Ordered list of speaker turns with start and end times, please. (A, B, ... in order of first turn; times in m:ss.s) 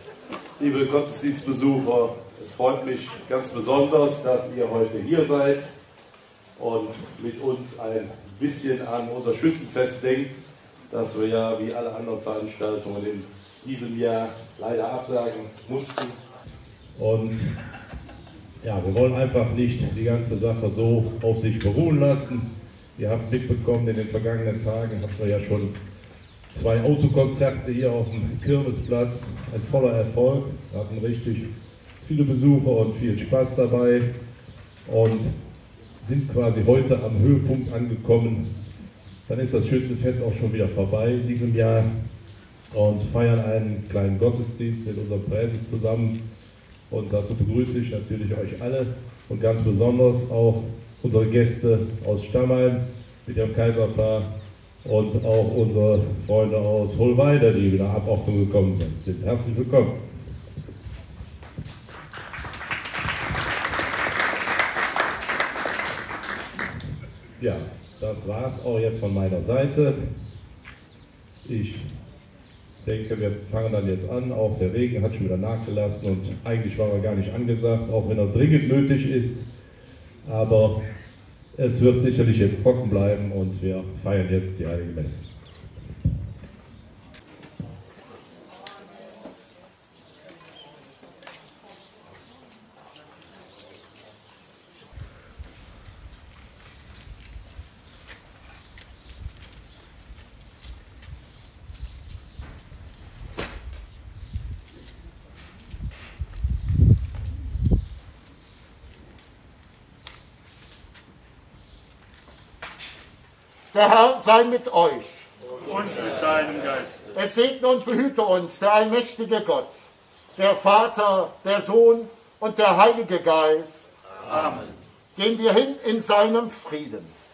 0:00.6-0:05.7 A
0:06.6-0:16.2 A
0:17.0-0:17.6 A
0:18.6-0:25.8 A
0:26.5-0:31.5 A
0:32.0-0:34.1 A
0:34.8-0:35.4 A
0:36.0-0:38.5 A
0:39.3-0:41.9 A
0:42.7-0:46.2 A
0:46.9-0:54.3 A
0:54.8-1:00.0 A
1:07.4-1:10.1 A
1:11.4-1:11.9 A
1:12.8-1:19.5 A
1:20.2-1:20.8 A
1:21.5-1:25.3 A
1:53.7-1:55.2 B
1:55.5-1:57.1 C
1:57.1-1:59.7 B
2:00.4-2:04.0 B
2:04.2-2:04.7 C
2:05.2-2:07.1 B